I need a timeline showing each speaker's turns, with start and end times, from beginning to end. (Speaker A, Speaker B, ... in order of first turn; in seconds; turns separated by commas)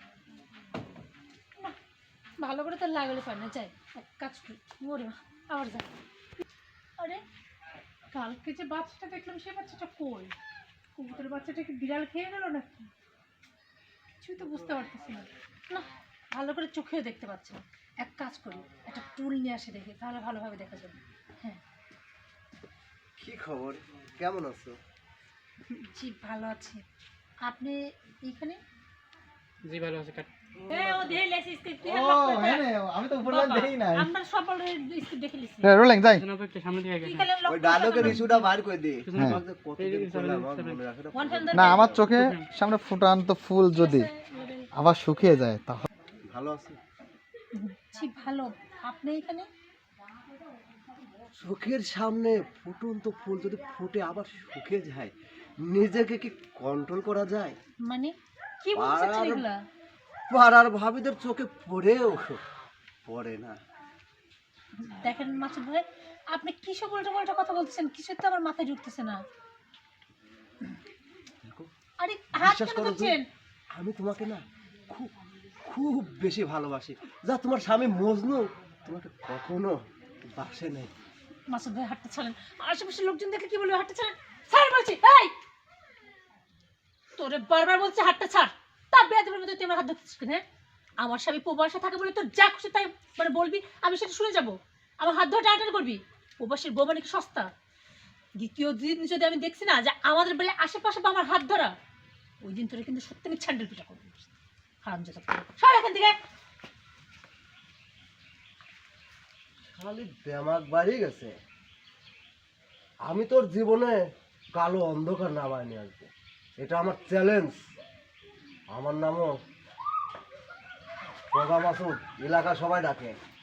Speaker A: 2.4-5.9, Speaker A: 8.1-10.3, Speaker A: 10.9-12.9, Speaker A: 14.2-21.6, Speaker B: 23.2-24.8, Speaker A: 25.7-26.8, Speaker A: 27.4-28.6, Speaker C: 29.6-30.3, Speaker A: 30.7-32.7, Speaker B: 30.7-31.0, Speaker D: 31.8-34.1, Speaker A: 33.2-35.8, Speaker D: 35.6-36.2, Speaker C: 36.1-37.3, Speaker A: 37.0-38.5, Speaker B: 37.5-42.1, Speaker C: 38.0-38.2, Speaker C: 39.0-40.8, Speaker A: 41.1-41.9, Speaker D: 41.5-44.1, Speaker C: 42.1-42.5, Speaker A: 43.7-44.7, Speaker D: 44.8-45.9, Speaker B: 46.2-46.8, Speaker A: 47.5-49.5, Speaker B: 51.4-57.6, Speaker A: 57.9-59.6, Speaker B: 58.8-59.5, Speaker B: 60.3-62.4, Speaker B: 63.1-63.6, Speaker A: 64.8-69.2, Speaker B: 71.4-71.7, Speaker A: 72.0-73.2, Speaker B: 72.3-73.2, Speaker B: 73.7-75.1, Speaker B: 75.6-80.9, Speaker A: 81.5-85.3, Speaker A: 87.2-90.4, Speaker A: 91.0-97.5, Speaker A: 98.4-101.7, Speaker A: 102.4-104.3, Speaker A: 104.8-106.2, Speaker B: 109.7-111.3, Speaker B: 113.0-117.6, Speaker B: 118.7-119.4, Speaker B: 121.3-123.2